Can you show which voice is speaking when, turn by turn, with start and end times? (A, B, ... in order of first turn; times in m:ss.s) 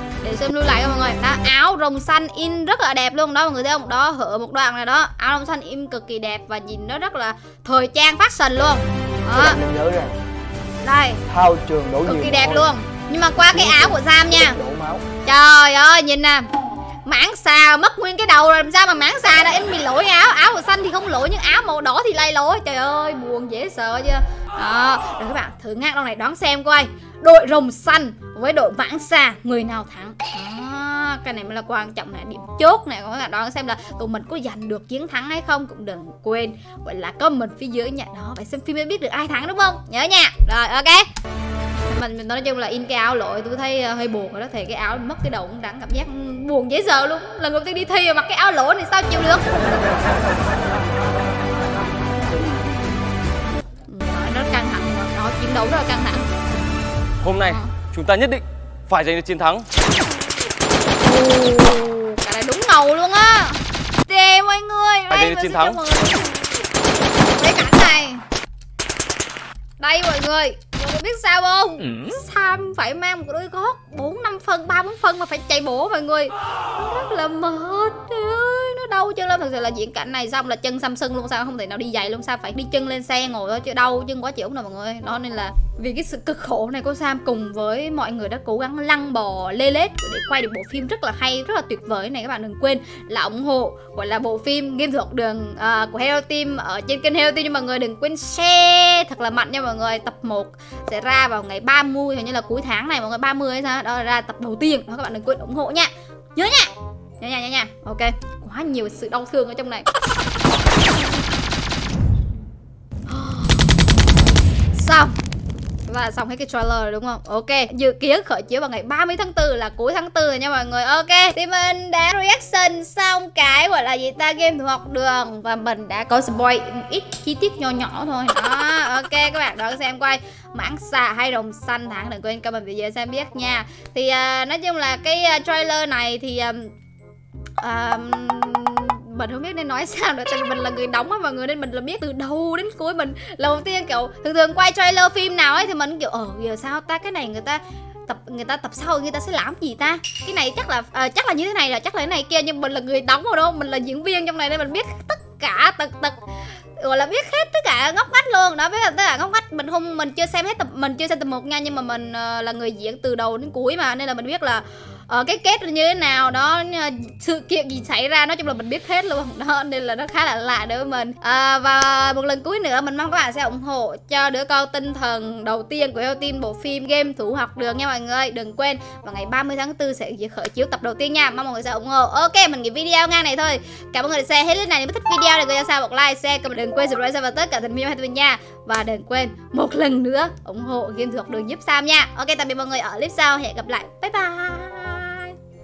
0:00.2-0:09.6 A
0:09.3-0:10.1 B
0:10.8-0:11.2 A
0:11.3-0:12.7 B
0:12.0-0:14.6 A
0:13.5-0:15.0 B
0:15.2-0:16.4 A
0:17.0-0:41.0 A
0:41.8-0:49.9 A
0:53.9-0:56.3 A
0:57.2-0:59.6 C
0:57.4-0:57.7 A
1:01.0-1:06.7 A
1:05.1-1:05.8 C
1:07.3-1:08.2 A
1:09.8-1:49.9 A
1:11.8-1:12.2 C
1:53.1-1:53.6 A
1:54.7-1:55.2 A
1:55.9-2:16.7 A
2:17.6-2:36.2 A
2:36.8-3:15.4 A